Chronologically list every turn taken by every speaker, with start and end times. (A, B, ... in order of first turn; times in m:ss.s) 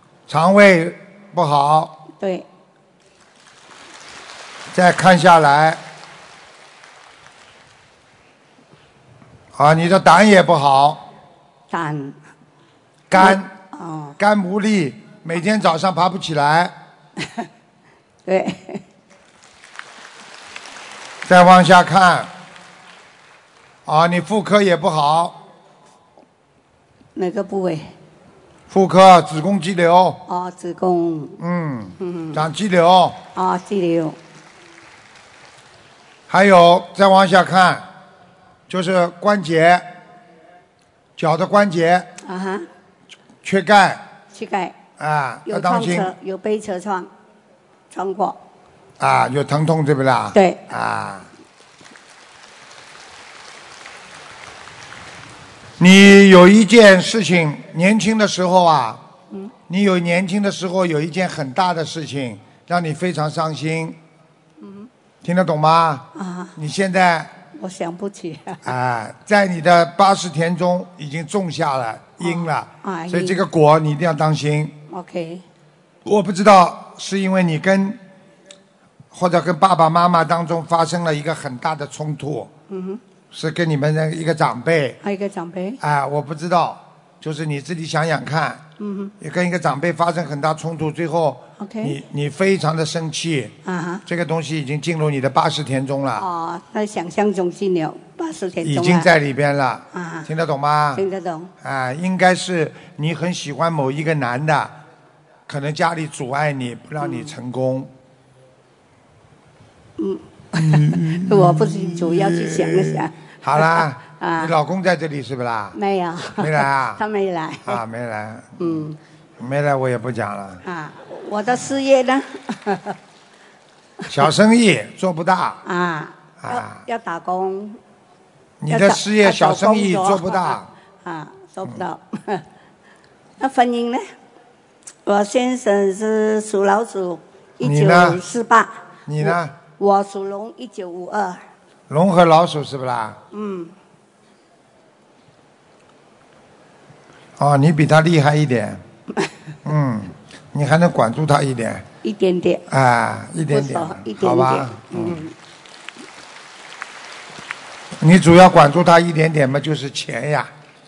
0:00.3-0:02.0 A
0:02.2-0:02.4 B
0:04.7-0:05.8 A
0:09.6-0:11.0 A
0:11.7-0:12.2 B
0:13.1-0:13.5 A
0:13.2-0:14.2 B
0:14.2-0:16.7 A
0:18.3-0:18.8 B
0:21.2-0:22.3 A
0:23.9-0:25.4 A
0:27.2-0:27.9 B
0:28.7-0:30.2 A
0:30.3-0:31.4 B
0:31.4-0:33.2 A
0:32.0-0:32.4 B
0:33.4-0:34.2 B
0:36.3-0:37.9 A
0:38.7-0:39.9 A
0:41.2-0:42.1 A
0:42.2-0:42.7 B
0:43.4-0:44.0 A
0:44.3-0:44.8 B
0:45.0-0:46.1 A
0:45.5-0:47.1 B
0:47.9-0:48.4 B
0:49.0-0:51.3 A
0:50.3-0:50.6 B
0:55.8-0:59.0 A
0:59.7-1:04.0 A
1:04.6-1:04.9 B
1:05.2-1:07.4 A
1:06.2-1:06.5 B
1:07.5-1:08.6 B
1:08.6-1:14.8 A
1:12.2-1:13.4 B
1:14.9-1:15.4 B
1:16.0-1:18.0 A
1:19.1-1:22.5 A
1:22.7-1:23.0 B
1:23.3-1:25.0 A
1:25.0-1:25.8 B
1:25.8-1:28.6 A
1:28.8-1:29.1 B
1:29.2-1:33.5 A
1:31.6-1:32.0 B
1:33.6-1:34.0 B
1:34.1-1:36.3 A
1:36.2-1:39.1 B
1:38.6-1:41.0 A
1:39.9-1:40.3 B
1:41.0-1:41.5 B
1:41.6-1:44.8 A
1:45.5-1:47.9 A
1:47.0-1:47.3 B
1:50.0-1:53.1 B
1:50.6-1:55.8 A
1:54.0-1:54.5 B
1:55.8-1:57.8 B
1:56.4-1:57.0 A
1:57.7-1:58.8 A
1:58.6-1:59.0 B
1:59.4-2:00.6 A
2:00.6-2:03.0 B
2:04.1-2:05.6 A
2:05.6-2:07.8 B
2:06.4-2:06.8 A
2:08.6-2:10.7 A
2:08.7-2:12.4 B
2:13.4-2:14.1 B
2:15.1-2:21.4 B
2:17.6-2:18.2 A
2:19.1-2:19.6 A
2:21.9-2:23.2 A
2:23.3-2:23.7 B
2:27.4-2:28.8 A
2:29.6-2:31.9 A
2:32.0-2:32.6 B
2:32.7-2:35.3 A
2:33.5-2:35.3 B
2:38.0-2:40.5 A